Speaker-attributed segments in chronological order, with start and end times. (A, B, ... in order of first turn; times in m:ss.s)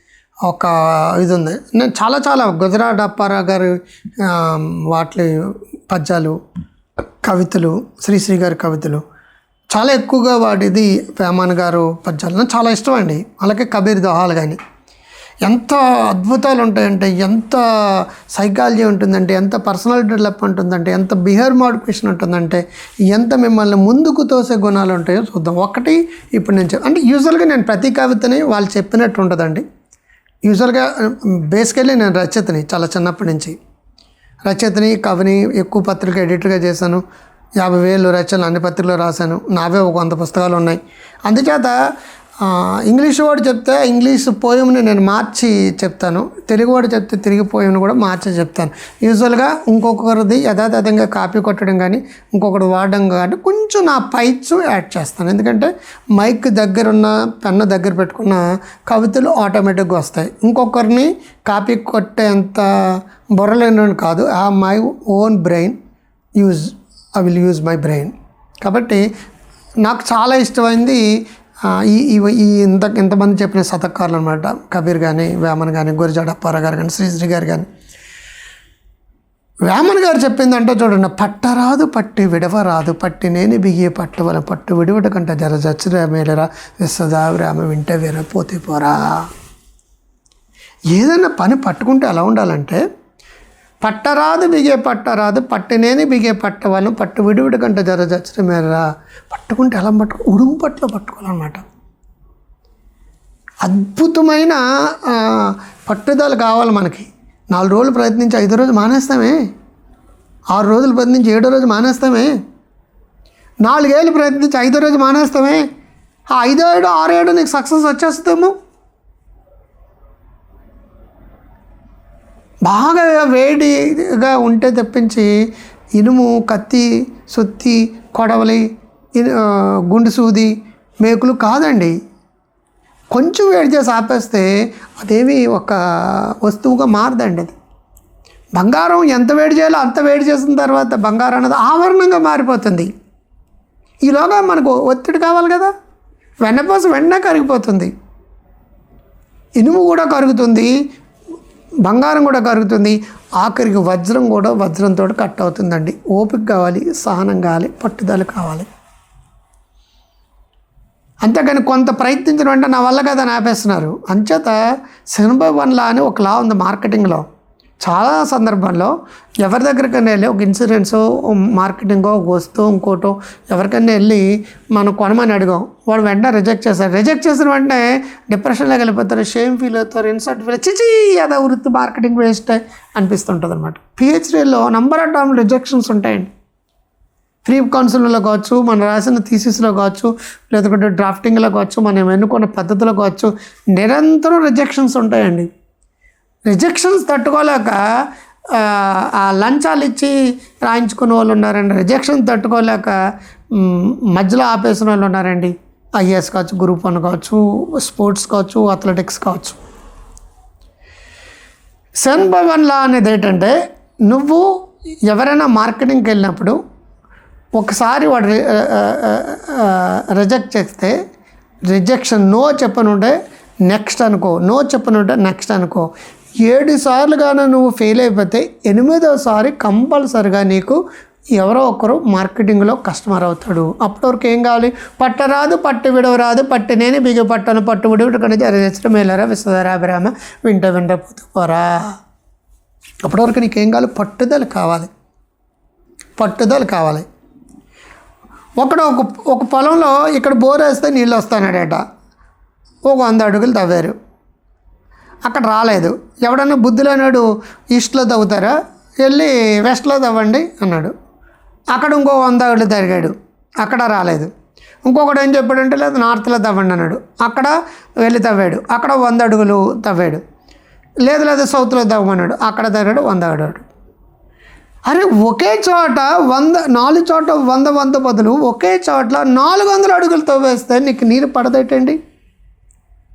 0:00.5-0:05.3 A
0:05.9-0:06.4 A
0:07.2-0:09.0 A
0:09.7-0:14.6 A
0:15.5-0:29.6 A
0:30.4-0:33.6 A
0:34.4-0:37.0 A
0:37.6-0:41.8 A
0:42.4-1:05.8 A
1:06.4-1:09.0 A
1:09.8-1:11.0 A
1:11.7-1:17.7 A
1:19.7-1:29.3 A
1:30.9-1:32.8 A
1:33.8-1:41.6 A
1:43.6-1:49.4 A
1:50.5-1:52.4 A
1:53.6-1:55.7 A
1:56.3-1:58.5 A
2:02.6-2:05.3 A
2:06.0-2:12.0 A
2:13.1-2:17.5 A
2:18.6-2:22.9 A
2:24.0-2:25.7 A
2:26.4-2:27.9 A
2:29.6-2:30.7 A
2:31.8-2:38.7 A
2:41.2-2:44.6 A
2:45.1-2:47.2 A
2:47.8-3:06.3 A
3:07.4-3:15.5 A
3:16.5-3:17.8 A
3:18.5-3:23.0 A
3:23.5-3:29.6 A
3:32.0-3:34.5 A
3:35.1-3:36.6 A
3:37.5-3:40.9 A
3:41.7-3:45.9 A
3:46.4-3:50.8 A
3:51.4-4:02.0 A
4:03.0-4:04.9 A
4:06.2-4:07.1 A
4:08.6-4:11.8 A
4:12.9-4:14.0 A
4:15.3-4:20.9 A
4:21.7-4:24.3 A
4:24.8-4:30.2 A
4:31.0-4:33.7 A
4:34.9-4:42.0 A